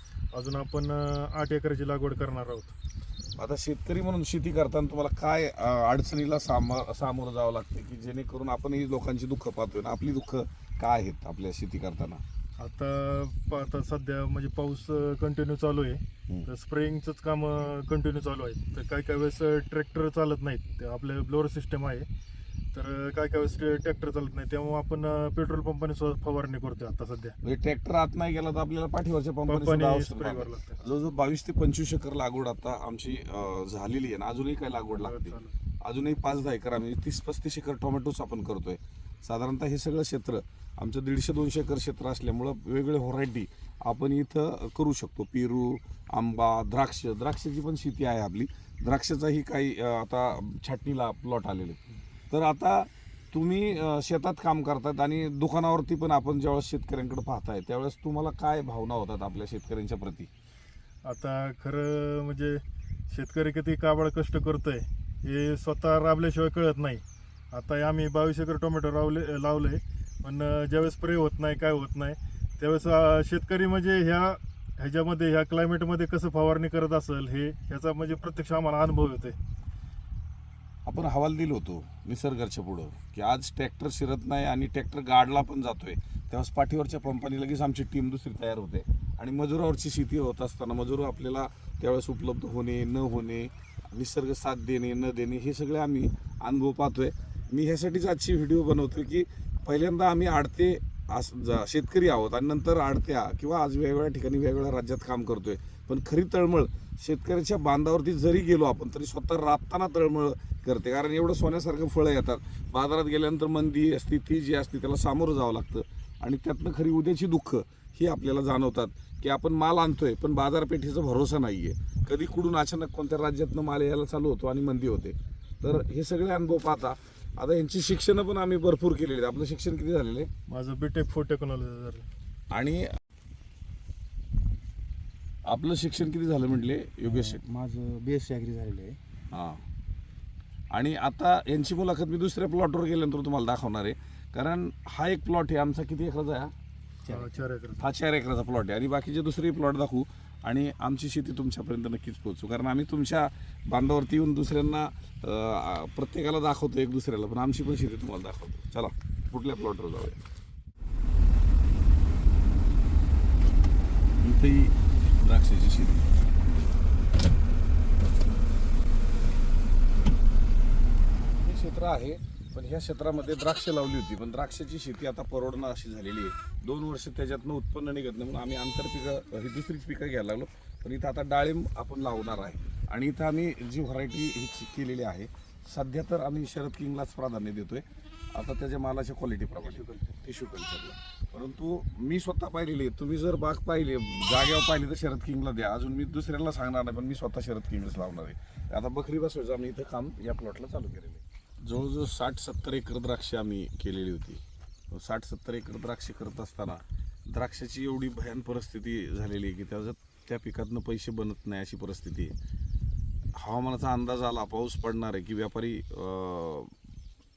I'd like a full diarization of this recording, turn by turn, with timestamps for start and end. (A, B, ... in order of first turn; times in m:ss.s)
0:00.3-0:02.8 A
0:03.4-0:12.2 B
0:12.6-0:22.0 A
0:22.7-0:27.3 A
0:27.4-0:51.8 B
0:29.4-0:30.8 A
0:35.0-0:35.5 A
0:52.3-1:00.3 B
1:01.0-1:19.4 A
1:20.8-2:10.3 B
2:10.5-2:12.0 A
2:12.5-2:13.0 B
2:15.4-2:17.4 B
2:17.0-2:19.0 C
2:19.3-2:19.6 B
2:20.7-2:26.5 B
2:27.1-2:27.9 A
2:27.8-2:40.2 B
2:44.2-2:46.1 B
2:51.3-3:32.3 B
3:09.6-3:10.2 C
3:33.3-3:36.7 B